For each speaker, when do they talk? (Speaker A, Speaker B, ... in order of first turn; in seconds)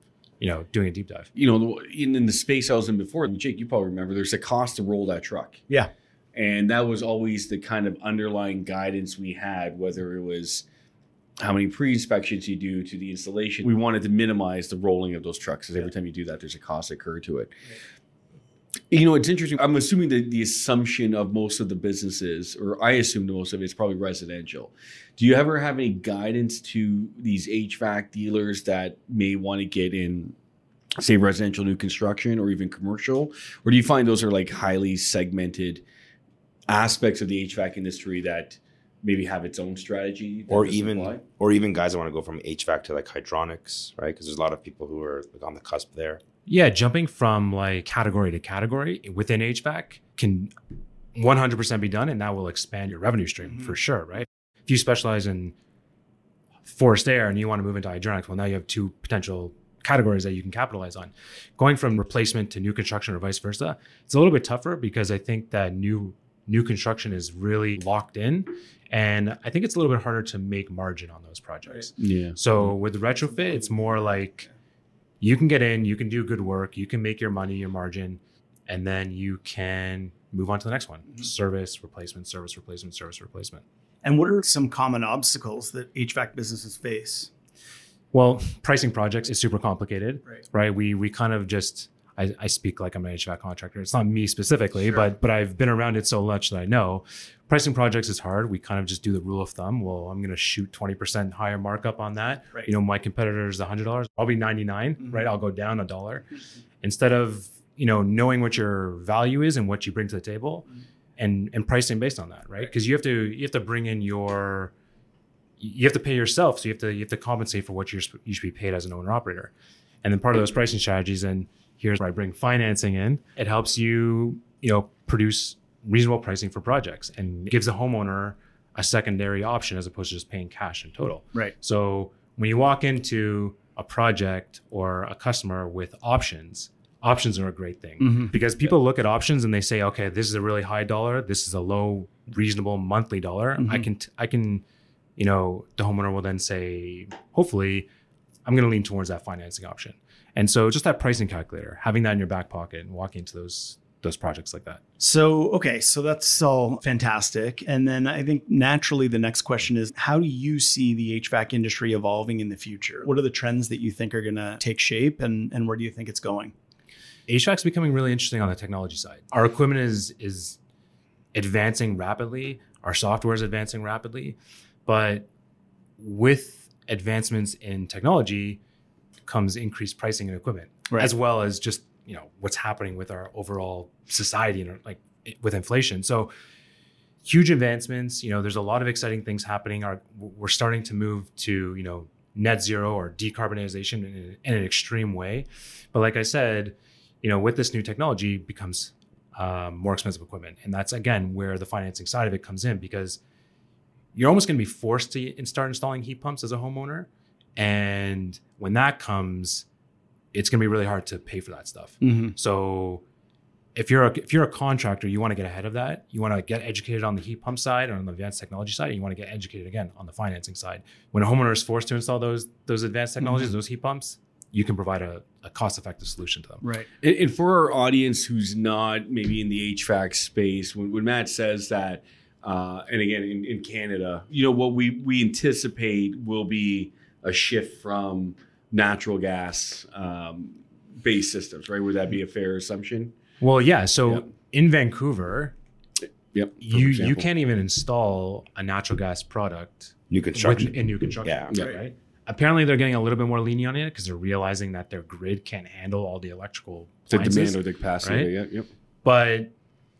Speaker A: 0.4-1.3, 46.5-50.5, 51.1-55.5, 56.6-74.5, 75.2-83.6, 88.1-106.3, 106.8-110.7, 111.2-114.7, 115.6-119.5, 120.0-144.6, 145.2-147.9, 148.4-154.8, 167.3-170.6, 171.3-175.3, 176.0-178.6, 179.2-186.3, 187.2-203.2, 204.1-209.7, 210.3-213.0, 213.7-226.6, 243.4-245.5, 246.6-258.3, 259.0-259.5
Speaker B: 1.3-5.7, 6.3-10.7, 11.4-17.5, 18.9-30.4, 31.0-35.8, 36.7-41.2, 72.0-72.4, 227.0-243.1, 246.3-247.3, 257.1-258.7
Speaker C: 40.5-46.2, 250.1-251.5
Speaker D: 84.0-87.3, 138.0-138.3, 143.6-143.8, 155.0-166.5, 212.0-212.3, 226.6-226.9